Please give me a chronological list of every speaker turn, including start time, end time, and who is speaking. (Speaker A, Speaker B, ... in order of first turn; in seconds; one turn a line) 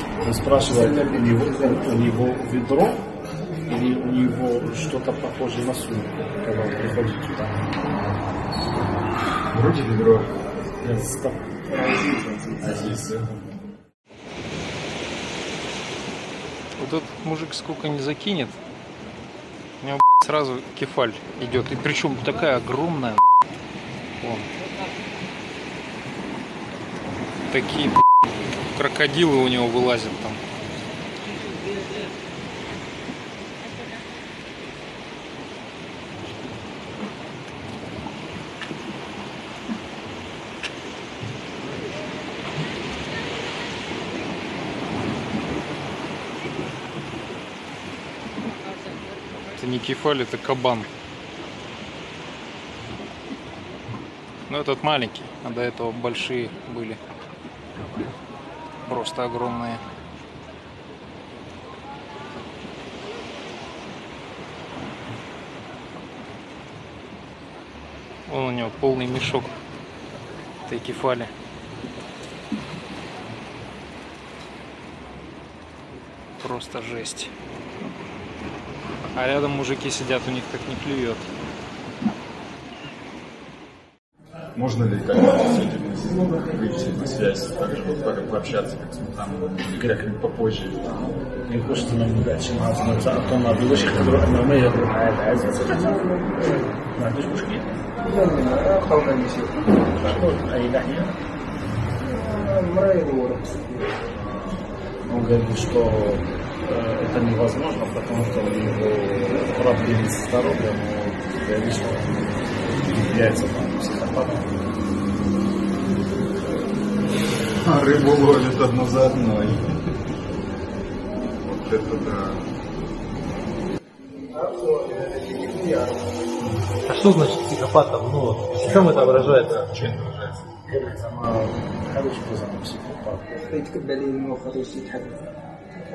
Speaker A: 0.2-3.0
Speaker B: 0.7-1.9
Speaker A: 3.7-7.9
Speaker C: 9.5-10.3
Speaker A: 10.8-11.5
Speaker B: 11.7-12.9
Speaker C: 12.6-13.4
Speaker D: 16.8-18.6
Speaker D: 19.8-23.2
Speaker D: 24.2-24.5
Speaker D: 27.5-28.0
Speaker D: 28.7-30.4
Speaker D: 49.5-50.9
Speaker D: 54.5-57.0
Speaker D: 58.9-59.8
Speaker D: 68.3-69.5
Speaker D: 70.7-71.3
Speaker D: 76.4-77.3
Speaker D: 79.2-81.3
Speaker C: 84.6-91.0
Speaker A: 89.7-90.1
Speaker A: 91.5-96.1
Speaker B: 95.7-96.7
Speaker A: 97.0-97.7
Speaker B: 98.0-100.2
Speaker A: 99.9-101.2
Speaker B: 102.2-104.0
Speaker A: 105.1-112.2
Speaker A: 112.8-114.5
Speaker C: 117.6-119.6
Speaker C: 121.4-122.4
Speaker B: 124.3-126.2
Speaker E: 126.9-129.6
Speaker C: 128.5-130.5
Speaker A: 130.7-133.3
Speaker B: 133.4-135.3